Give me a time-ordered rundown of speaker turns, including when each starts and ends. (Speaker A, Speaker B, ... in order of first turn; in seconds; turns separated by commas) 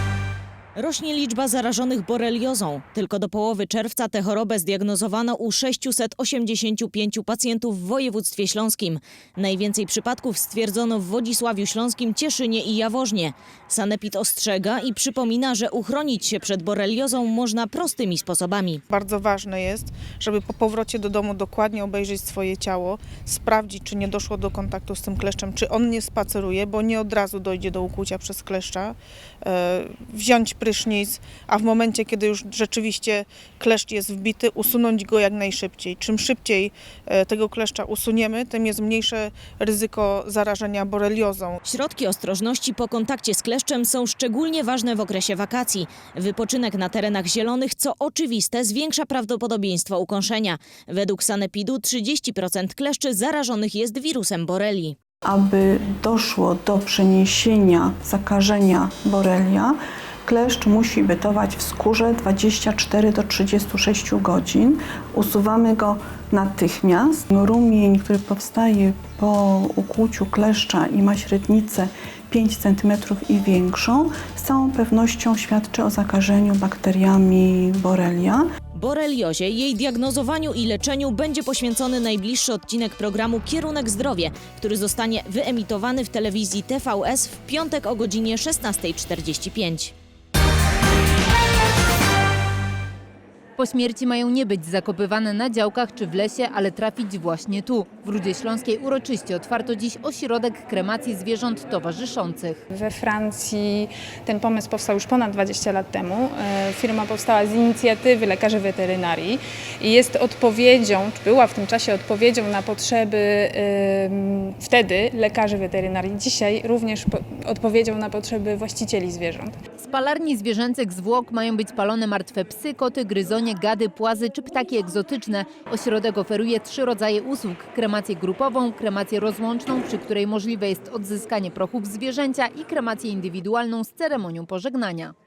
Speaker A: 0.8-18.8, Speaker B: 18.9-28.9, Speaker B: 29.5-41.6, Speaker A: 41.7-55.0, Speaker C: 55.2-78.5, Speaker A: 78.8-89.9, Speaker D: 93.6-102.6, Speaker E: 102.7-119.6, Speaker D: 119.8-135.1